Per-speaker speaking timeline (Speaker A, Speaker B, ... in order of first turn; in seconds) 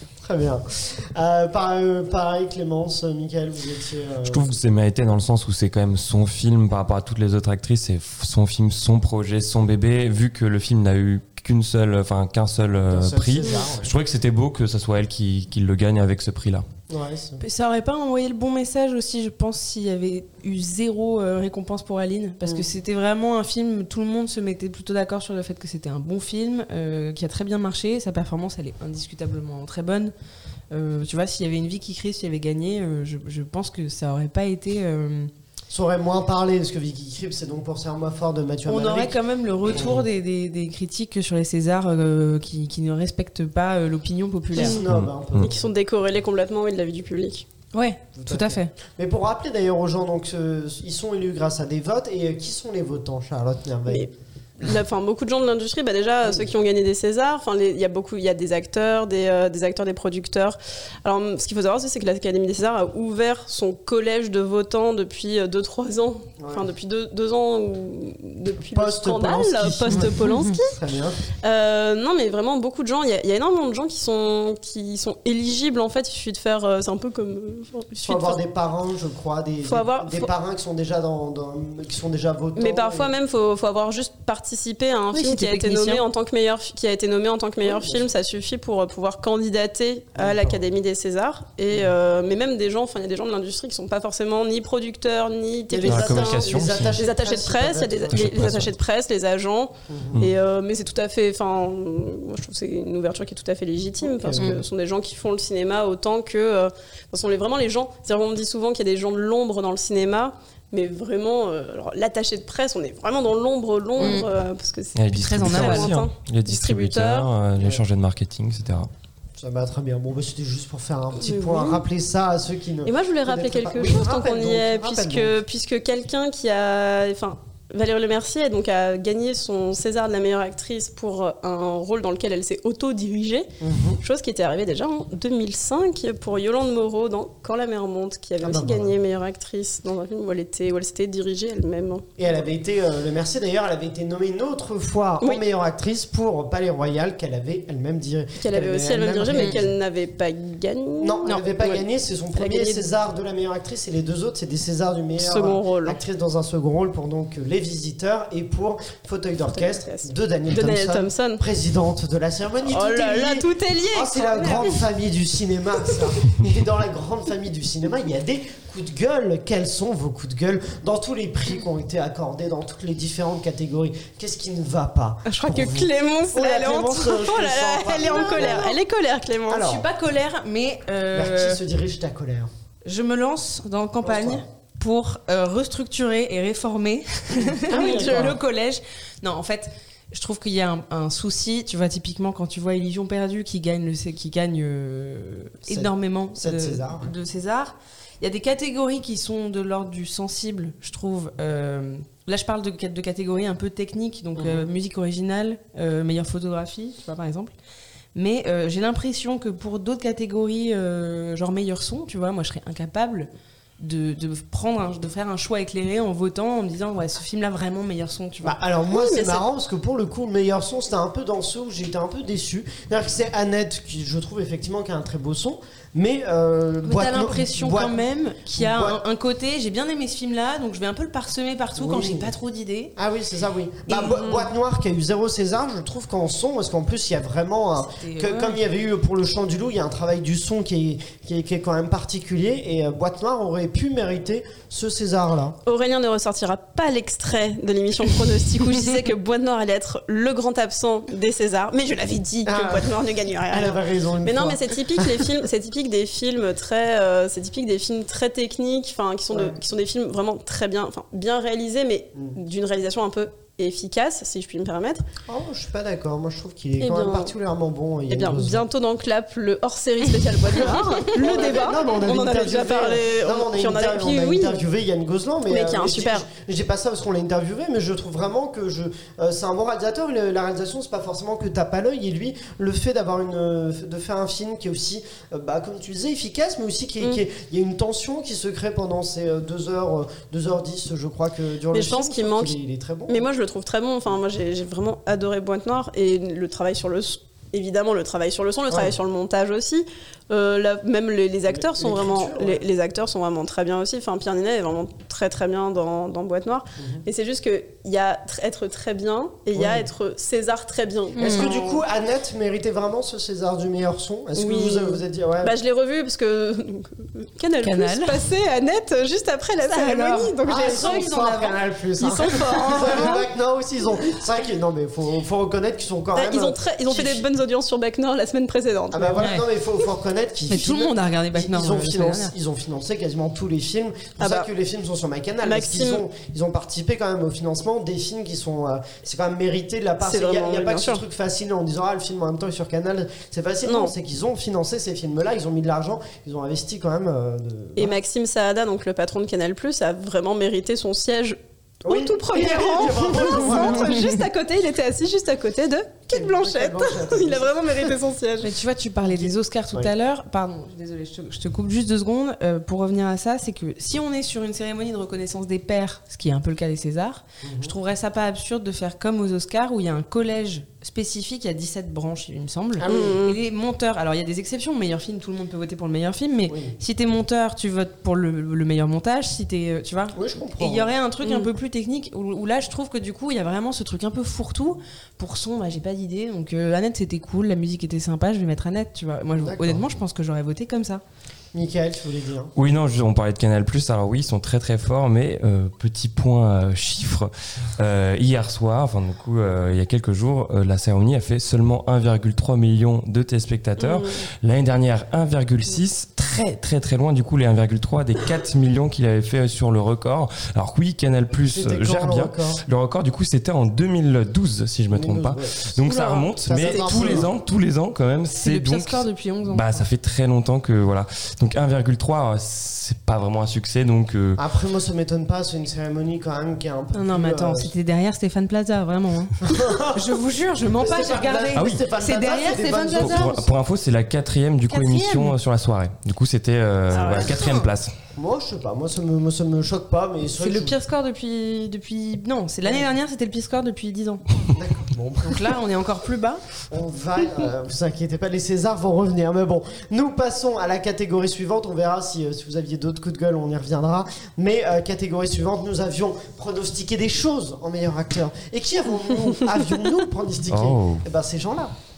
Speaker A: 0.2-4.5, 12.9-13.9, 16.9-17.4, 22.4-22.7, 35.7-40.0, 44.5-45.7, 48.1-54.1, 56.2-56.5, 66.4-66.7, 68.6-71.2, 78.0-83.1, 87.6-88.0, 90.2-90.6, 95.7-98.6, 99.9-100.2, 104.0-104.6, 119.4-125.3, 133.6-134.0, 138.4-138.9, 142.2-149.7, 151.0-178.7, 179.5-179.8, 181.1-182.5, 184.0-184.4, 187.4-188.4, 195.7-197.1, 204.3-204.7, 218.4-229.0, 231.8-232.3, 232.9-245.6, 252.4-252.9, 253.5-255.3, 259.3-259.6, 265.3-268.6, 270.4-293.2, 298.7-298.9, 301.5-302.6, 309.5-309.9, 311.2-315.5, 320.4-327.2, 328.9-348.0, 351.8-354.1, 356.1-357.9, 359.0-359.9, 367.4-367.7, 372.8-373.2, 376.5-376.8, 380.1-380.9, 389.3-390.0, 391.5-392.5, 411.5-412.6, 414.9-417.3, 424.4-427.7, 429.4-430.1, 430.7-433.5, 437.0-437.3, 438.1-440.8, 444.5-445.5, 446.7-461.7
Speaker B: 4.3-16.6, 44.9-45.5, 95.8-97.0, 98.1-98.7, 115.0-118.9, 392.6-424.4, 431.5-431.8, 433.0-437.9, 460.5-461.0
Speaker C: 17.4-30.1, 30.7-35.3, 38.6-44.8, 47.7-48.7, 70.2-70.5, 85.1-86.0, 114.0-114.3, 115.1-115.9, 178.0-178.8, 179.6-181.6, 182.8-207.5, 208.1-213.3, 213.8-218.6, 226.8-232.9, 237.9-238.6, 311.2-311.5, 317.6-318.2, 319.7-321.5, 322.4-323.1, 329.2-329.5, 330.5-332.3, 353.4-354.1, 358.4-391.0, 418.3-419.8, 426.9-433.3, 434.7-435.4, 440.4-444.2, 445.2-446.4
Speaker D: 45.4-47.5, 54.6-70.8, 71.4-78.4, 79.6-80.3, 82.5-117.3, 121.2-121.8, 122.8-133.5, 134.0-142.3, 148.4-151.8, 152.3-152.9, 155.2-156.0, 159.5-161.4, 162.7-164.8, 175.3-179.7, 187.8-188.1, 218.9-219.4, 233.9-234.5, 245.6-265.0, 266.8-267.3, 268.1-274.6, 275.5-276.3, 291.7-311.8, 314.4-321.4, 322.0-323.2, 326.1-329.3, 334.2-334.5, 335.4-336.0, 340.0-341.0, 343.6-343.9, 347.8-358.5, 372.9-373.4, 381.2-381.5, 403.8-404.2, 416.6-417.2, 436.9-437.6